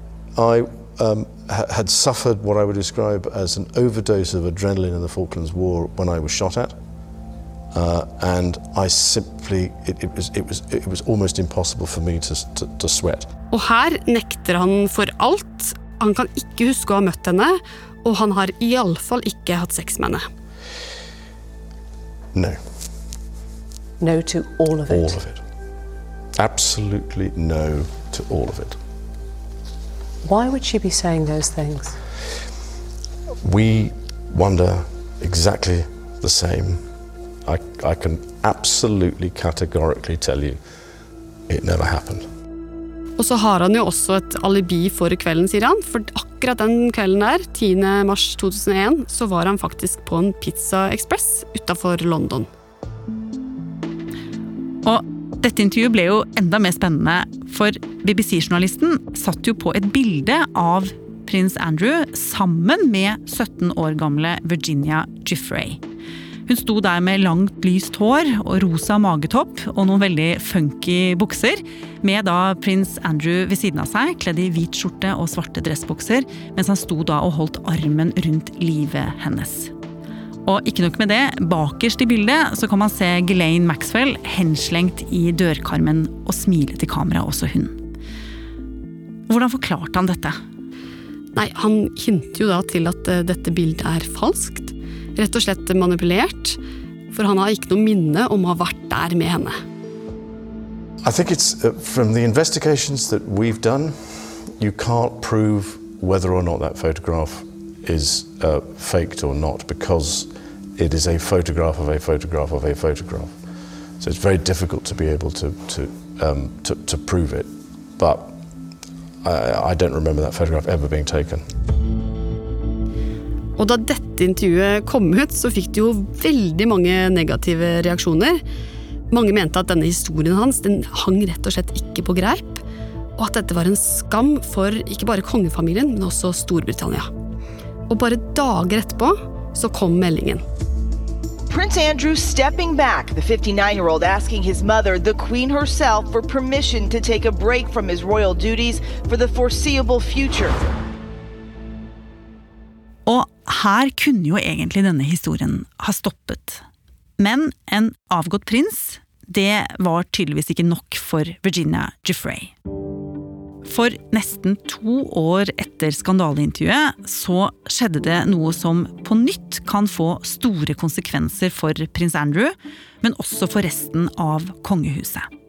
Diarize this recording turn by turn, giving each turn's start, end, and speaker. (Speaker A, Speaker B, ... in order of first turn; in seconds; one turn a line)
Speaker A: 0.3-6.7
Speaker A: 7.7-13.3
Speaker B: 13.5-20.2
Speaker A: 22.3-22.6
Speaker C: 24.0-25.2
Speaker A: 24.9-25.4
Speaker A: 26.3-28.8
Speaker C: 30.2-31.9
Speaker A: 33.4-36.8
Speaker A: 37.5-40.6
Speaker A: 41.5-42.2
Speaker B: 43.2-52.5
Speaker D: 54.8-65.8
Speaker D: 66.5-79.7
Speaker D: 80.4-87.8
Speaker D: 89.3-90.3
Speaker B: 91.3-96.6
Speaker B: 97.1-99.5
Speaker A: 101.0-113.4
Speaker A: 114.0-118.3
Speaker A: 119.2-121.4
Speaker B: 123.6-128.4
Speaker B: 129.1-132.6
Speaker B: 133.2-137.1
Speaker B: 137.9-140.4
Speaker E: 141.6-150.5
Speaker D: 153.1-156.6
Speaker D: 157.2-162.5
Speaker D: 163.6-175.3